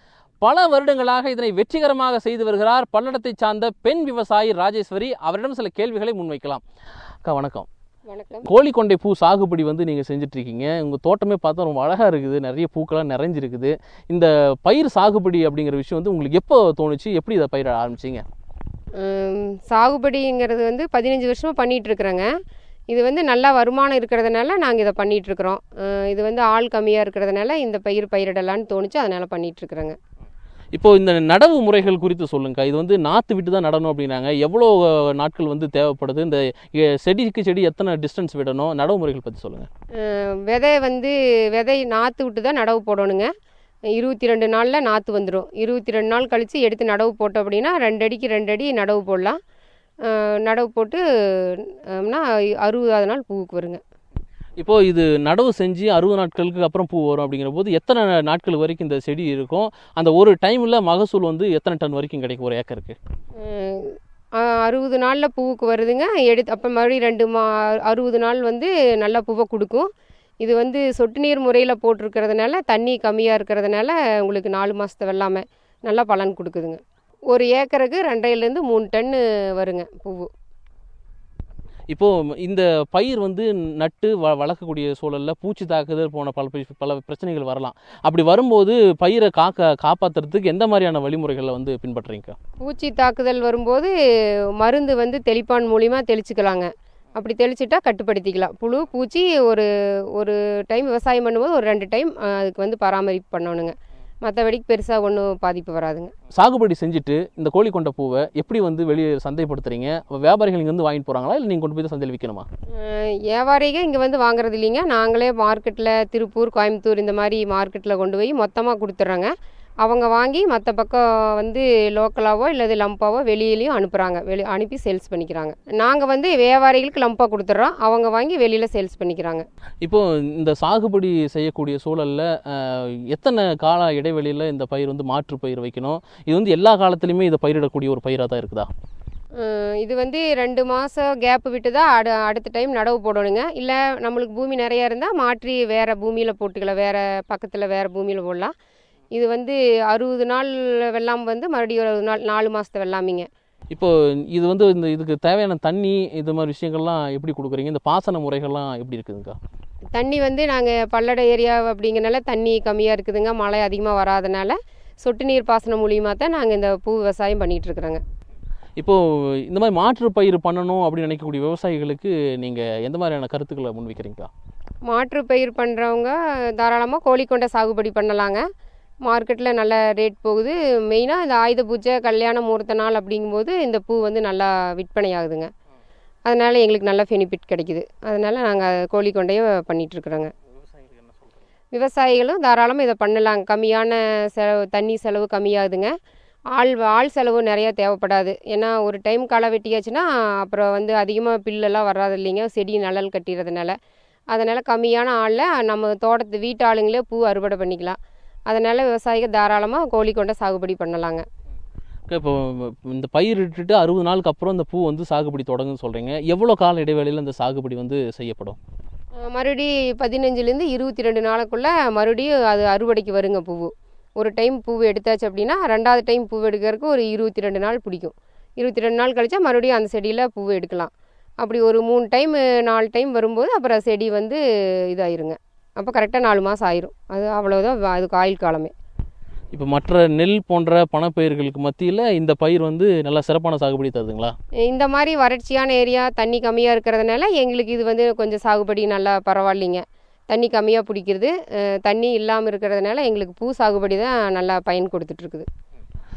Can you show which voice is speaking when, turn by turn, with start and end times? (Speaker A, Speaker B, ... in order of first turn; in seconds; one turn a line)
Speaker A: 0.4-6.6
Speaker A: 7.2-7.7
Speaker B: 8.1-8.5
Speaker A: 8.4-18.2
Speaker B: 19.0-22.3
Speaker B: 22.9-30.0
Speaker A: 30.7-39.7
Speaker B: 40.0-43.3
Speaker B: 44.0-49.4
Speaker B: 50.0-53.8
Speaker A: 54.6-63.0
Speaker B: 63.4-69.9
Speaker B: 70.4-76.8
Speaker B: 77.3-80.3
Speaker A: 81.9-92.4
Speaker B: 92.6-93.9
Speaker B: 94.6-106.1
Speaker A: 106.3-112.5
Speaker B: 112.7-129.4
Speaker A: 129.8-138.7
Speaker B: 139.4-148.5
Speaker B: 149.1-153.3
Speaker A: 153.7-159.4
Speaker B: 159.9-168.0
Speaker A: 168.8-174.3
Speaker B: 174.9-178.4
Speaker B: 179.0-185.5
Speaker B: 186.3-190.3
Speaker B: 191.7-195.9
Speaker B: 196.5-203.8
Speaker B: 204.3-211.2
Speaker A: 212.1-218.6
Speaker B: 219.2-238.7
Speaker A: 239.5-244.3
Speaker B: 244.7-255.5